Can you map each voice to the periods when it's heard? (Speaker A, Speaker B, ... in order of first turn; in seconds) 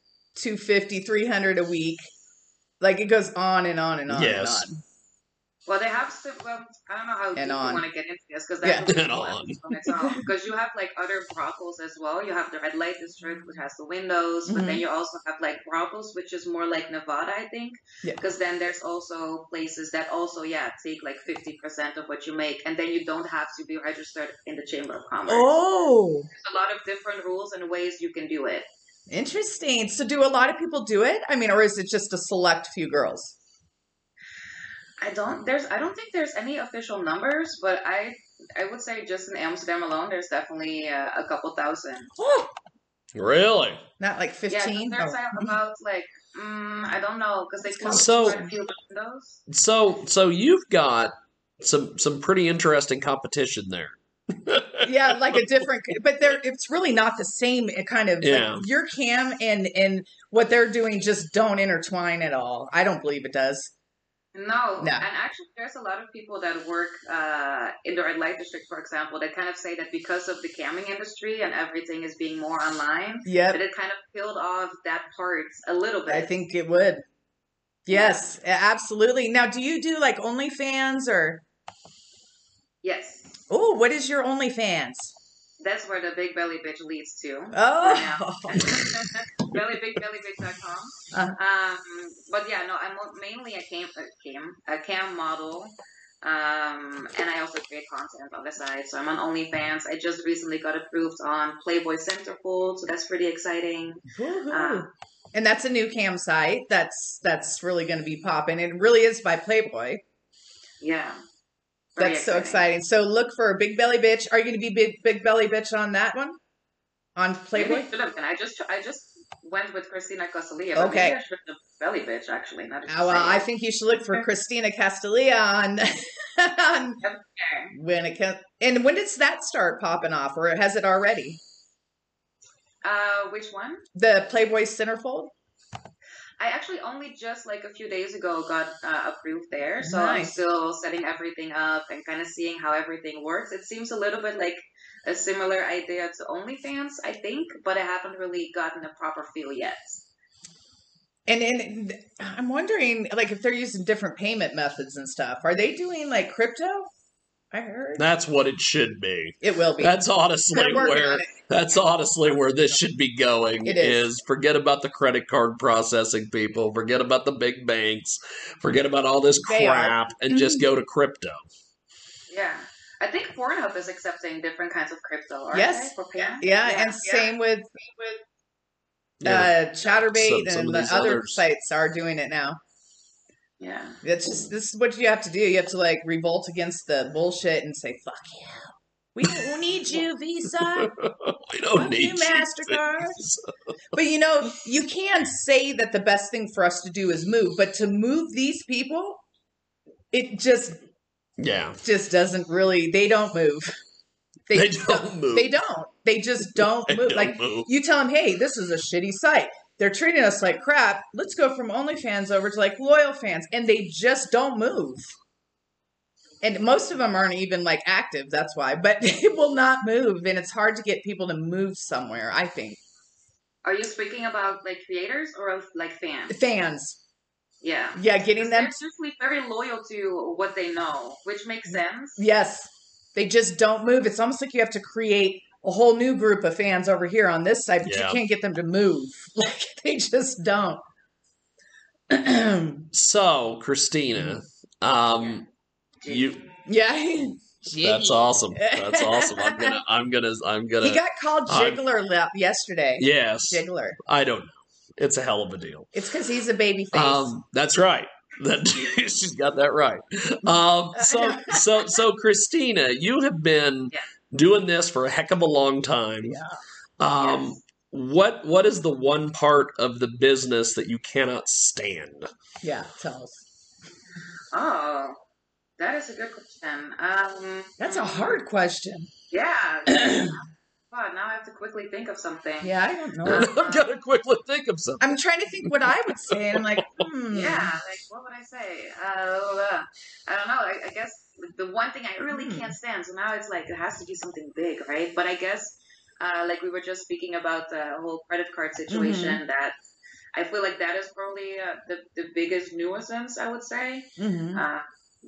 Speaker A: 0.3-2.0, 2.8-4.8, 7.4-7.8, 8.6-8.9, 14.5-14.8, 25.3-26.3, 29.1-33.4, 42.2-42.5, 44.0-45.5, 47.7-48.5, 54.8-63.7, 64.8-65.0, 73.2-73.6, 76.1-77.0, 77.9-81.4, 83.5-85.1, 87.5-88.8, 91.1-91.4, 104.1-110.0, 112.0-116.4, 117.2-117.9, 120.8-121.2, 122.9-127.0, 127.7-131.4, 133.9-135.3, 139.8-140.4, 151.3-156.9, 157.5-158.1, 159.4-160.0, 160.5-161.5, 163.6-164.1, 169.4-170.7, 175.5-178.2, 179.2-182.6, 184.0-190.9, 191.7-193.2, 193.9-199.2, 200.1-200.8, 201.8-203.7, 204.5-215.1, 216.4-222.8, 226.3-227.0, 227.9-228.8, 231.7-240.8, 242.1-242.9, 246.7-249.8, 250.8-254.0, 255.9-257.3, 261.0-262.0, 266.2-266.6, 272.6-273.5, 277.8-279.1, 279.9-280.4, 282.6-283.6, 285.0-287.7, 292.2-292.8, 298.9-299.4, 304.2-304.6
Speaker B: 4.1-4.7, 8.9-9.6, 43.1-43.8, 47.9-48.4, 49.5-55.4, 58.2-58.7, 158.0-171.5, 179.2-181.4, 190.6-193.4, 201.4-201.8, 204.5-205.5, 206.6-207.7, 237.8-238.2, 242.9-245.4, 246.1-246.4, 247.8-251.8, 253.0-255.9, 256.9-266.4, 267.0-272.3, 283.2-287.1
Speaker C: 5.7-25.6, 26.3-28.7, 35.0-42.1, 44.5-49.4, 64.3-76.3, 77.9-78.2, 82.8-83.4, 85.6-104.9, 110.8-111.2, 112.0-112.7, 117.5-123.5, 127.0-127.7, 132.8-133.8, 136.4-150.1, 172.3-177.3, 183.6-184.0, 223.6-226.4, 227.6-232.2, 245.2-245.4, 246.0-246.3, 267.2-267.6, 274.5-275.2, 275.8-278.4, 279.3-280.4, 280.9-282.8, 283.2-283.9, 287.3-299.8, 300.4-304.9